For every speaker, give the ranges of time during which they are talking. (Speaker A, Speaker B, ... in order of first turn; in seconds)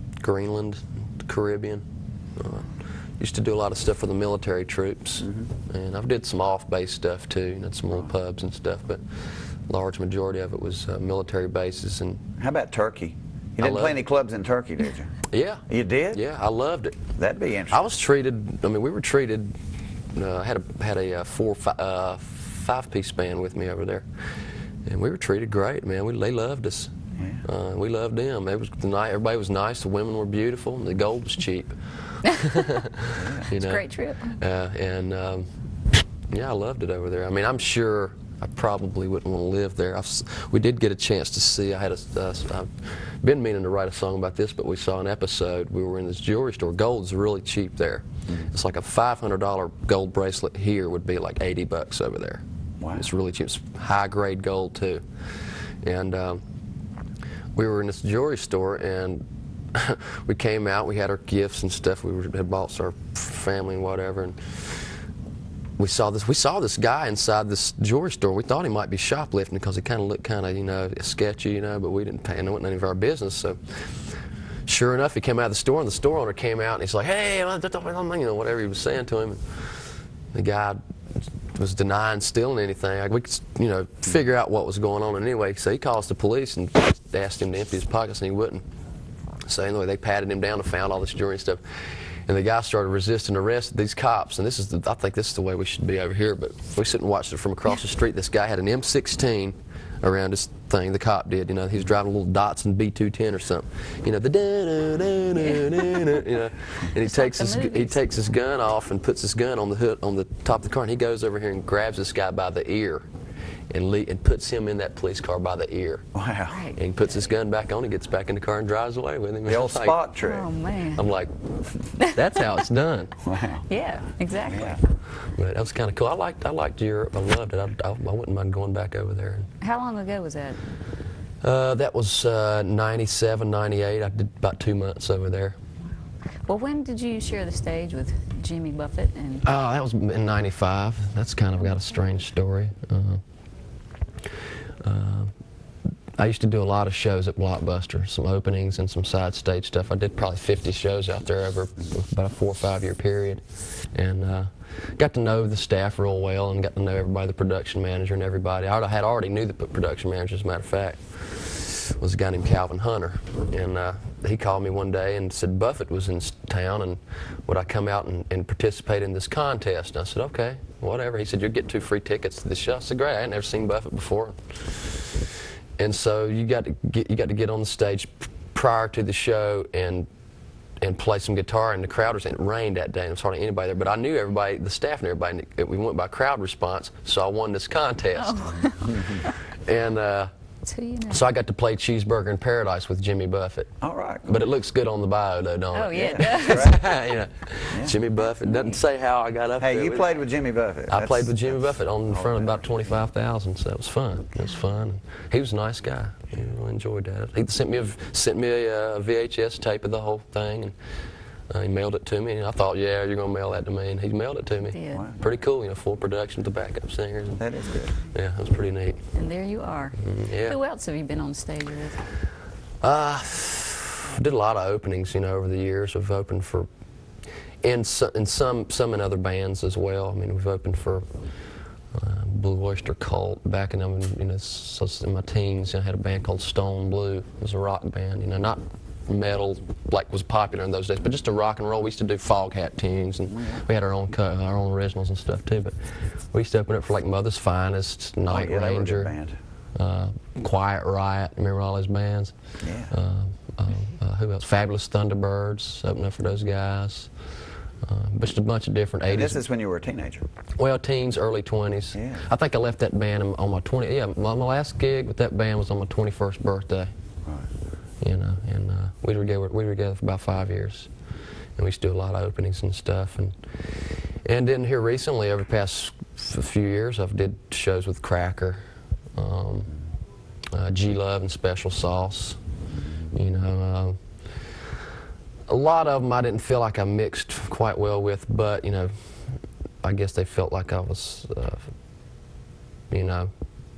Speaker A: 0.2-1.8, 2.4-12.2, 13.6-14.0, 15.3-17.1, 17.7-19.5, 20.1-24.1, 24.9-35.5, 36.3-52.4, 52.9-55.0, 55.8-56.4, 57.5-64.9, 65.8-74.1, 74.7-80.8, 81.4-88.6, 89.4-113.0, 113.7-116.1, 116.8-120.0, 120.9-123.2, 125.2-129.5, 131.4-135.6, 139.4-143.2, 144.8-145.3, 146.2-174.9, 175.8-180.1, 180.8-188.5, 189.7-190.3, 191.1-193.7, 194.3-200.2, 200.9-210.7, 211.5-217.4, 218.1-219.0, 220.0-220.6, 222.8-226.7, 227.6-231.1, 231.9-249.1, 249.7-252.3, 252.9-257.1, 257.8-259.4, 260.6-266.9, 268.0-270.9, 271.6-278.6, 279.1-279.7, 280.5-282.4, 283.1-284.0, 285.5-291.7, 292.9-293.3
Speaker B: 5.2-5.5, 12.4-15.1, 15.7-16.2, 17.2-17.8, 27.2-27.4, 33.1-33.5, 52.8-53.0, 116.1-116.6, 119.5-120.5, 123.2-123.6, 124.4-124.8, 188.8-189.2, 193.8-194.4, 195.9-196.8, 197.7-198.0, 199.6-202.7, 214.9-215.2, 217.4-218.0, 243.3-243.6, 248.3-249.3, 252.6-252.9, 259.1-260.3, 261.9-262.2, 282.8-283.1
Speaker C: 33.5-34.4, 105.4-106.0, 107.0-108.0, 116.5-116.8, 120.2-121.0, 123.7-124.8, 129.6-130.6, 136.4-139.4, 188.2-189.3, 190.6-191.2, 195.7-196.7, 214.7-215.1, 219.1-222.1